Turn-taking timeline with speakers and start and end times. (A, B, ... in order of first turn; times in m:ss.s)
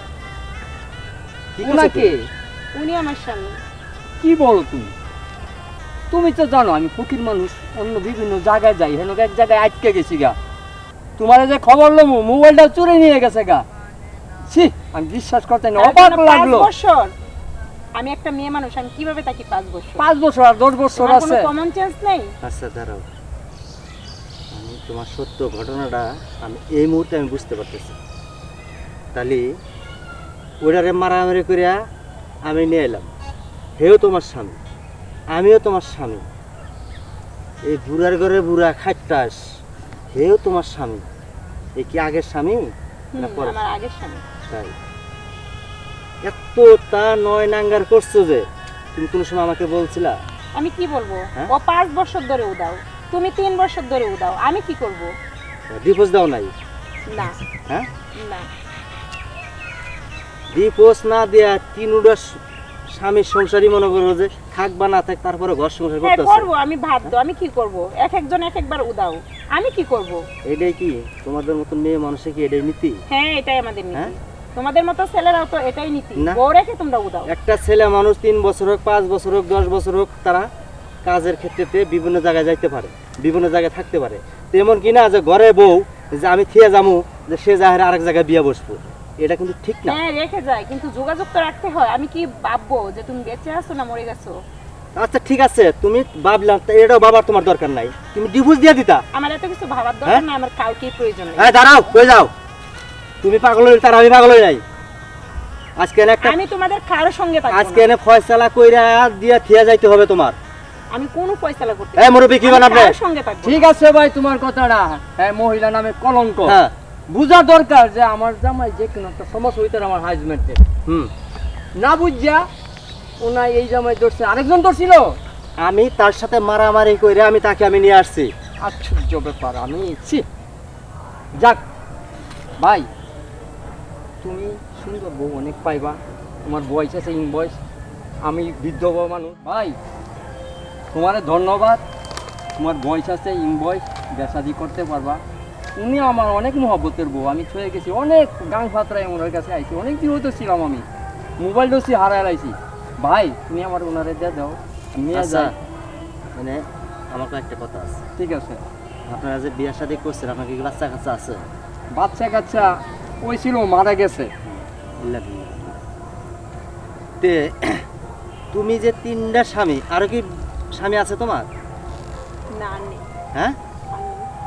0:01.6-0:02.2 A
0:01.6-0:02.3 B
0:02.7-0:03.6 C
0:04.2-0:04.9 B
0:06.1-0:10.4 B
0:11.2-0:13.7 B
0:14.5-0:16.7 B
0:15.8-0:17.1 C
0:18.0-0:20.1 C
0:20.0-0:21.5 B
0:21.0-0:22.3 C
0:22.4-0:23.1 A
0:24.5-0:28.0 A
0:29.1-0:29.5 A
0:30.6-0:31.8 A
0:32.4-0:33.1 A
0:33.8-0:34.6 A
0:35.3-0:36.3 A
0:37.6-0:39.4 A
0:40.1-0:41.1 A
0:41.8-0:43.6 A
0:43.1-0:44.2 C
0:46.2-0:50.2 A
0:50.6-0:55.1 C
0:55.7-0:56.5 A
0:57.0-0:57.4 C
0:58.2-0:58.5 C
1:00.5-1:02.4 A
1:02.9-1:06.5 A
1:06.0-1:10.2 C
1:10.5-1:13.0 A
1:13.1-1:17.3 C
1:17.3-1:20.5 A
1:21.0-1:30.0 A
1:29.9-1:34.4 C
1:35.0-1:39.0 A
1:39.1-1:41.6 C
1:41.4-1:42.3 A
1:43.2-1:44.6 A
1:45.8-1:46.4 A
1:46.2-1:47.9 C
1:47.5-1:50.4 A
1:50.9-1:53.7 C
1:52.0-1:53.0 A
1:53.4-1:56.6 B
1:56.4-1:56.7 A
1:57.1-2:00.6 B
2:01.8-2:02.5 B
2:03.2-2:05.2 B
2:05.6-2:08.3 A
2:08.6-2:10.3 B
2:11.4-2:11.6 B
2:12.6-2:12.9 B
2:14.2-2:17.6 B
2:18.2-2:19.8 B
2:20.9-2:21.8 B
2:22.6-2:25.2 B
2:25.8-2:30.9 B
2:31.4-2:35.5 B
2:35.1-2:35.5 A
2:36.4-2:38.0 A
2:38.2-2:38.6 B
2:39.1-2:41.4 A
2:41.9-2:44.3 B
2:44.5-2:45.8 A
2:47.2-2:47.8 A
2:48.5-2:51.5 A
2:52.6-2:53.1 C
2:53.9-2:54.3 C